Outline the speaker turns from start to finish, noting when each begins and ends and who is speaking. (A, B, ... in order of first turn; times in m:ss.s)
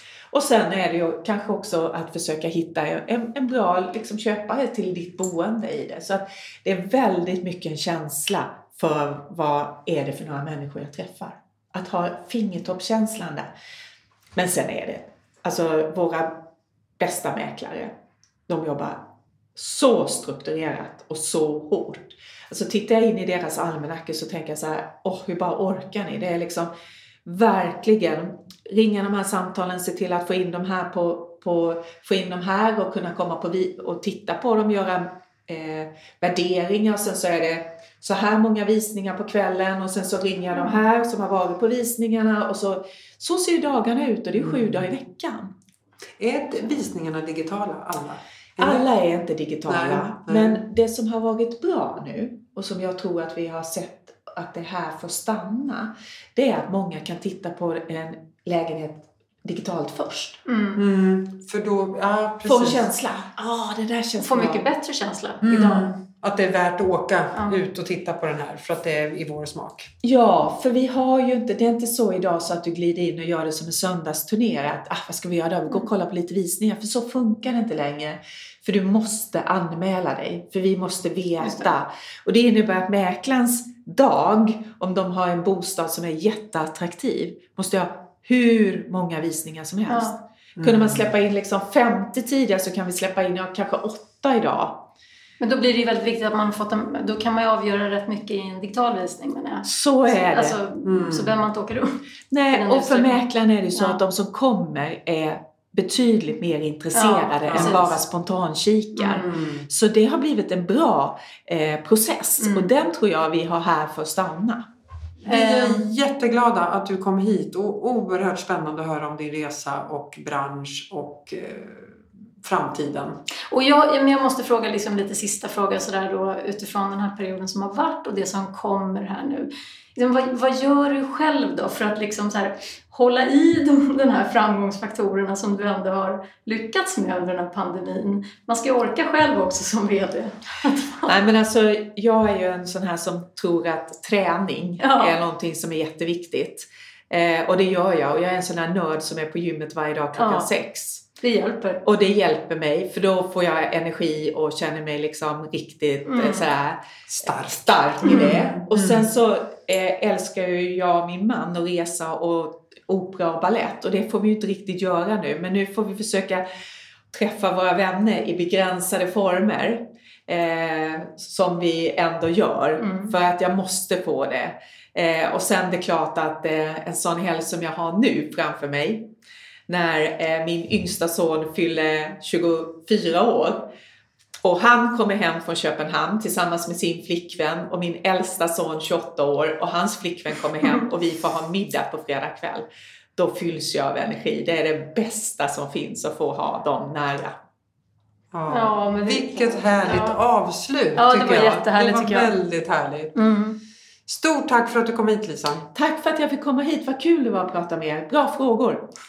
0:00.3-0:13.5 A
0:14.3-0:16.4 A
0:17.0-0:17.9 A
0:18.5-0:26.7 A
0:27.2-0:45.5 A
0:44.4-0:44.8 B
0:46.2-0:48.9 B
0:48.6-1:00.4 A
0:49.7-0:50.6 B
1:00.4-1:00.8 C
1:00.8-1:02.9 B
1:02.4-1:04.6 A
1:04.2-1:05.9 C
1:05.4-1:09.9 B
1:10.0-1:34.9 A
1:21.4-1:21.7 C
1:29.9-1:30.2 C
1:30.6-1:31.1 B
1:35.4-1:43.2 C
1:39.6-1:40.6 A
1:40.8-1:41.4 B
1:42.3-1:54.6 A
1:46.9-1:47.9 C
1:47.5-1:47.9 B
1:49.0-1:49.2 C
1:49.1-1:49.6 B
1:52.4-1:52.7 C
1:55.2-2:03.2 B
1:55.2-1:55.8 C
2:03.5-2:21.1 C
2:21.0-2:31.0 A
2:24.8-2:25.2 C
2:30.2-2:30.5 C
2:31.2-2:31.8 C
2:31.8-2:46.4 A
2:36.0-2:36.5 C
2:37.1-2:39.1 B
2:38.0-2:38.4 C
2:47.1-2:59.1 A
2:52.8-2:53.1 C
2:59.7-3:03.7 A
3:04.4-3:17.4 A
3:18.3-3:23.1 B
3:18.5-3:20.2 C
3:21.0-3:22.3 C
3:23.1-3:23.6 C
3:24.1-3:25.7 B
3:25.7-3:28.9 A